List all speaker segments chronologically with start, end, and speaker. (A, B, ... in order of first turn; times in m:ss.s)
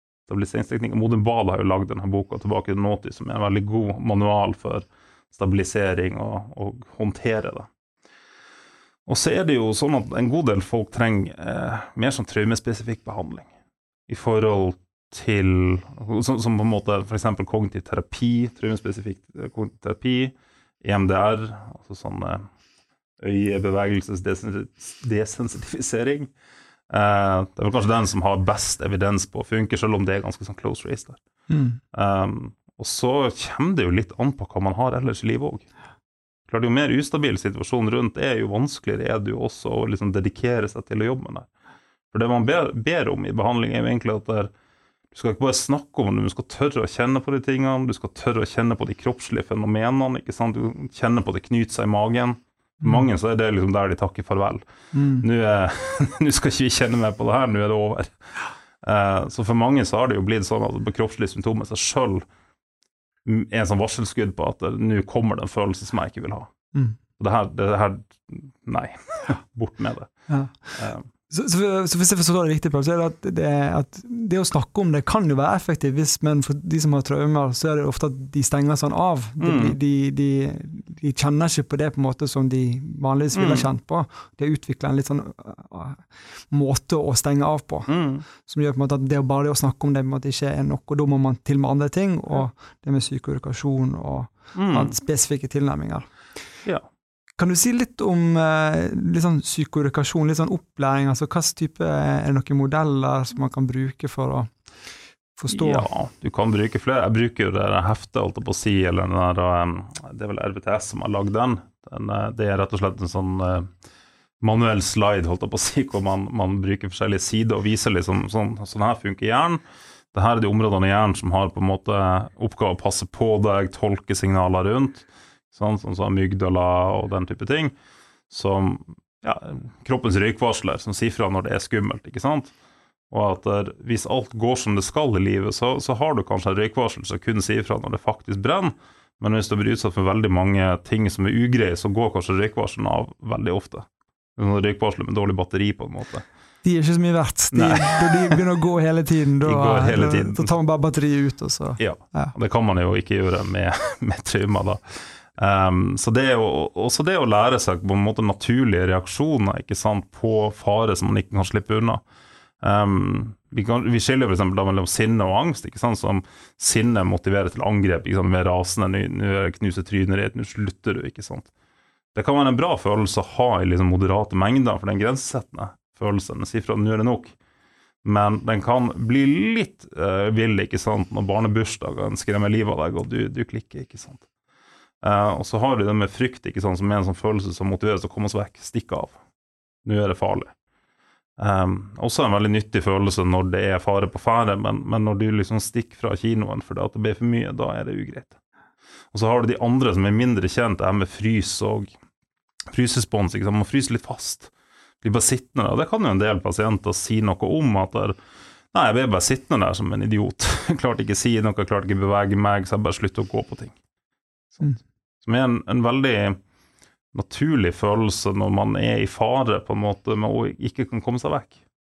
0:00.3-0:07.7 A
0:09.1-0:13.5 A
0:14.1-0:22.5 A
0:23.2-0:26.3 A
0:26.9-0:31.2 A
0:31.5-0:31.8 B
0:31.9-0:35.7 A
0:36.5-0:41.5 A
0:42.1-0:44.5 A
0:45.1-0:54.6 A
0:54.9-0:55.2 B
0:55.2-0:58.2 A
0:58.8-1:02.2 A
1:03.2-1:06.5 A
1:07.2-1:10.1 A
1:10.3-1:10.8 B
1:10.8-1:11.1 A
1:11.3-1:36.1 B
1:19.4-1:19.8 A
1:23.4-1:23.7 A
1:27.9-1:28.2 A
1:34.6-1:34.9 A
1:37.4-1:44.5 B
1:45.4-1:45.9 B
1:45.5-1:53.7 A
1:54.4-1:59.6 A
2:00.1-2:07.7 A
2:08.3-2:12.5 A
2:13.1-2:23.9 A
2:24.4-2:26.3 A
2:26.6-2:32.3 B
2:27.5-2:28.4 A
2:29.4-2:30.6 A
2:31.8-2:34.8 A
2:35.4-2:42.0 A
2:42.6-2:51.5 A
2:52.1-2:57.3 A
2:58.0-3:04.2 A
3:05.0-3:09.2 A
3:09.8-3:10.5 A
3:11.4-3:18.4 A
3:19.1-3:21.9 A
3:22.7-3:24.5 A
3:25.0-3:28.2 A
3:28.7-3:33.8 A
3:35.2-3:36.4 A
3:37.1-3:41.6 A